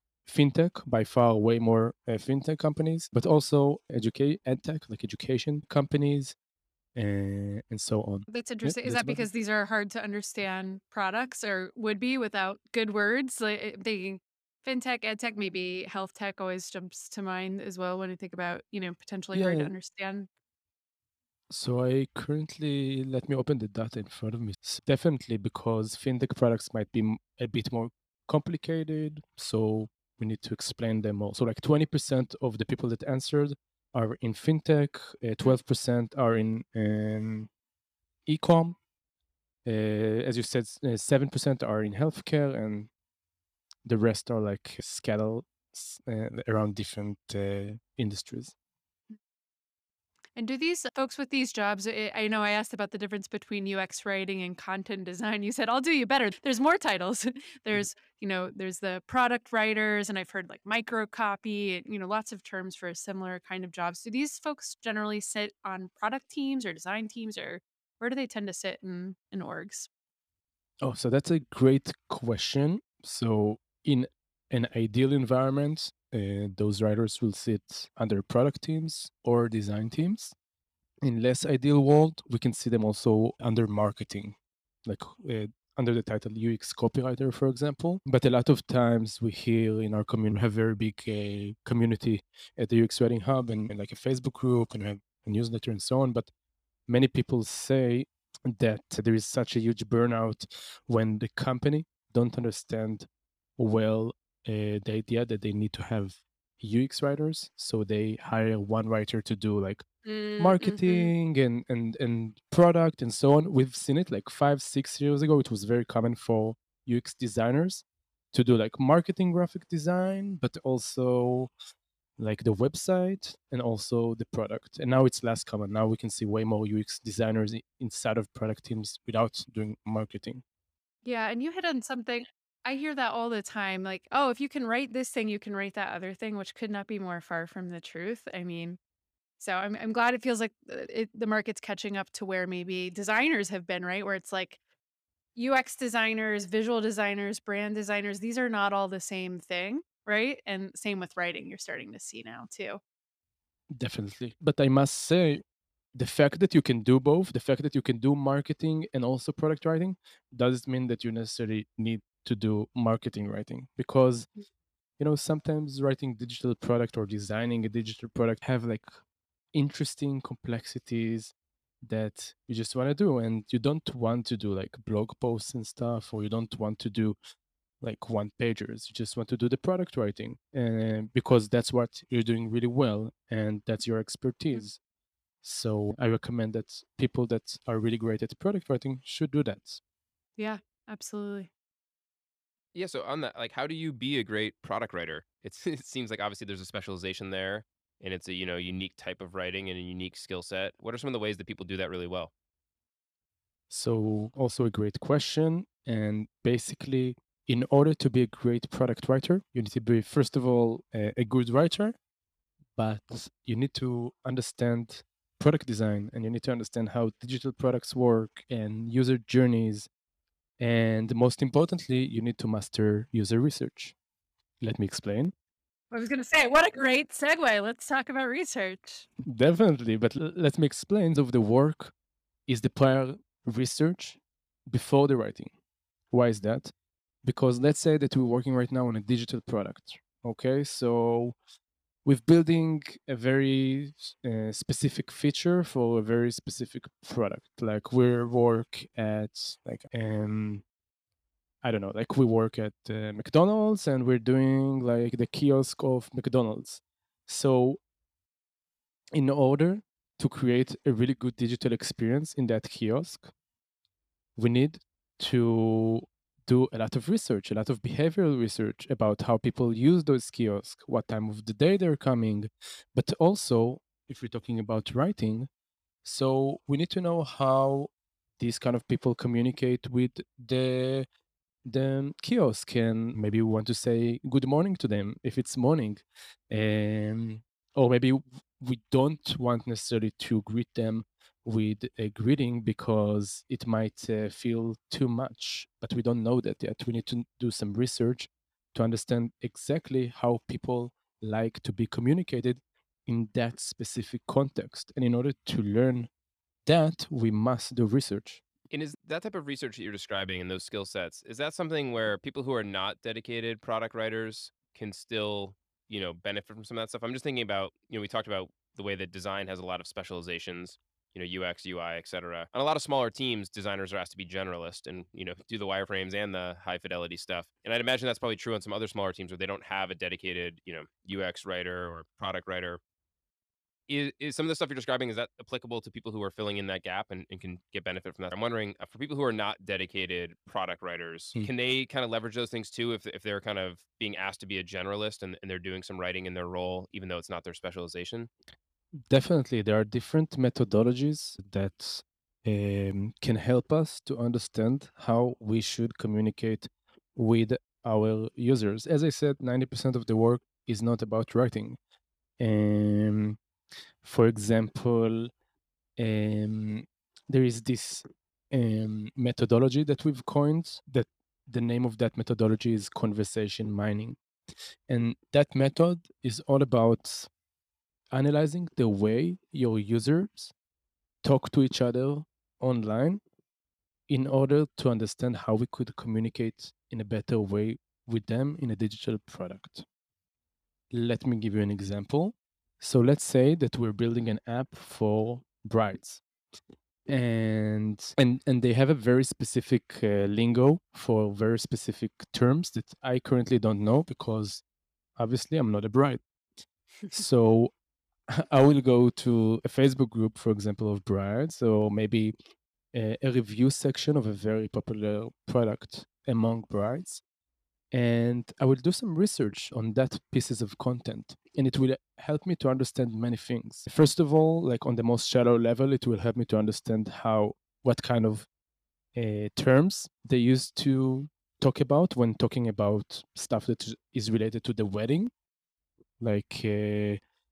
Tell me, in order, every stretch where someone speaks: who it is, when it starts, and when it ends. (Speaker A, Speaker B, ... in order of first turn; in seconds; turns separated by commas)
Speaker A: 0.2-6.4, Speaker A: 7.0-9.2, Speaker B: 8.3-20.3, Speaker A: 19.3-19.7, Speaker A: 21.5-37.5, Speaker A: 38.3-38.8, Speaker A: 39.7-42.9, Speaker A: 43.9-48.5, Speaker B: 50.4-69.9, Speaker A: 70.8-80.3, Speaker A: 81.0-96.3, Speaker A: 96.9-109.8, Speaker B: 110.0-111.1, Speaker A: 110.4-121.5, Speaker A: 122.2-130.4, Speaker B: 131.1-138.8, Speaker B: 139.4-144.6, Speaker B: 145.4-152.8, Speaker A: 153.7-155.4, Speaker A: 156.0-164.3, Speaker A: 165.0-168.9, Speaker A: 169.5-171.3, Speaker A: 171.8-177.2, Speaker A: 177.8-184.8, Speaker A: 185.4-189.8, Speaker B: 190.4-191.5, Speaker C: 192.7-202.3, Speaker A: 203.7-212.0, Speaker A: 212.8-219.9, Speaker A: 220.6-223.9, Speaker A: 224.6-225.3, Speaker B: 225.9-229.1, Speaker A: 229.3-231.9, Speaker A: 232.5-235.5, Speaker A: 236.1-236.7, Speaker A: 237.2-241.4, Speaker A: 242.1-250.6, Speaker A: 251.6-257.8, Speaker A: 259.1-263.3, Speaker A: 264.4-275.5, Speaker A: 276.0-281.1, Speaker A: 281.7-306.1, Speaker A: 306.7-308.4, Speaker C: 308.7-332.8, Speaker C: 333.9-348.3, Speaker A: 349.1-361.8, Speaker A: 362.4-363.4, Speaker A: 364.0-365.3, Speaker A: 366.0-374.2, Speaker A: 374.9-377.3, Speaker A: 378.1-380.5, Speaker A: 381.2-383.2, Speaker A: 384.1-389.9, Speaker A: 390.9-396.2, Speaker A: 397.1-404.6, Speaker A: 405.2-406.2, Speaker A: 407.1-407.7, Speaker A: 408.3-412.3, Speaker A: 412.9-417.2, Speaker A: 417.9-428.5, Speaker A: 429.1-435.3, Speaker A: 436.2-437.2